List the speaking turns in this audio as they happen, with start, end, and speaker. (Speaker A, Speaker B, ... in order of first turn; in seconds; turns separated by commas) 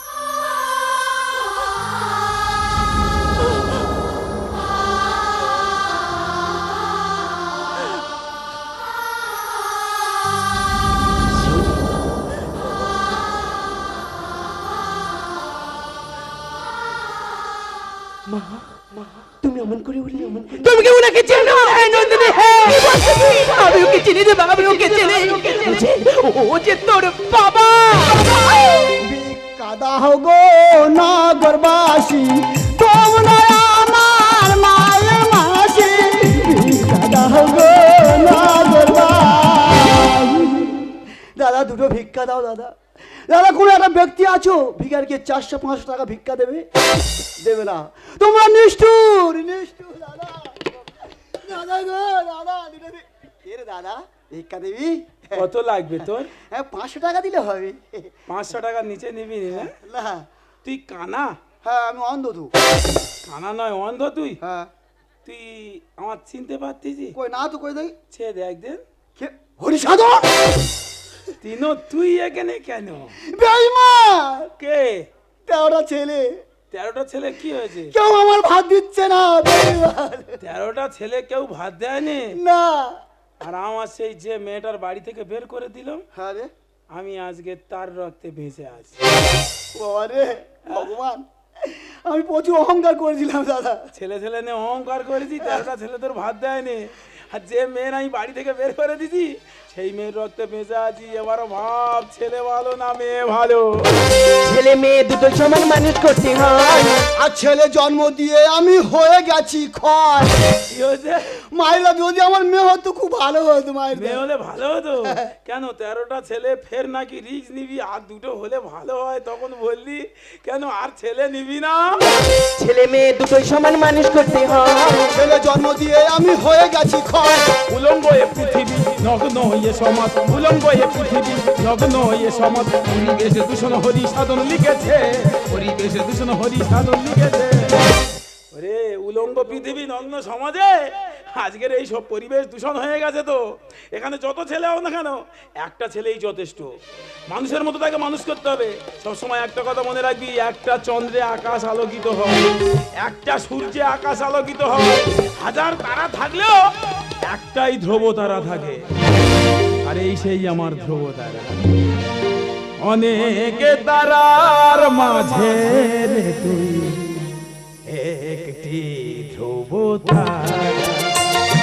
Speaker A: 11.5-11.8, Speaker A: 18.3-22.4, Speaker B: 20.5-28.9, Speaker A: 23.1-23.7, Speaker A: 24.5-26.3, Speaker C: 29.0-40.8, Speaker C: 41.4-46.6, Speaker C: 47.4-50.7, Speaker C: 51.4-55.4, Speaker D: 55.3-56.3, Speaker C: 56.5-58.1, Speaker D: 58.3-59.7, Speaker C: 59.5-60.2, Speaker D: 60.6-61.4, Speaker C: 61.6-62.5, Speaker D: 63.2-64.4, Speaker C: 64.4-64.7, Speaker D: 65.2-67.1, Speaker C: 67.1-67.9, Speaker D: 68.1-68.8, Speaker C: 69.2-70.3, Speaker D: 71.4-73.1, Speaker C: 73.2-74.5, Speaker D: 74.6-75.1, Speaker C: 75.5-76.4, Speaker D: 76.7-77.9, Speaker C: 77.9-80.4, Speaker D: 80.4-82.4, Speaker C: 82.3-83.0, Speaker D: 83.4-86.0, Speaker C: 86.1-86.5, Speaker D: 86.9-89.0, Speaker C: 89.7-93.9, Speaker D: 93.9-103.9, Speaker A: 104.3-107.1, Speaker C: 107.1-110.4, Speaker D: 110.7-111.4, Speaker C: 111.4-114.2, Speaker D: 113.9-122.0, Speaker A: 122.4-125.1, Speaker C: 125.1-127.5, Speaker D: 127.7-137.9, Speaker D: 138.5-146.8, Speaker D: 147.3-158.8, Speaker D: 159.8-161.6, Speaker D: 162.8-167.3, Speaker D: 167.8-171.2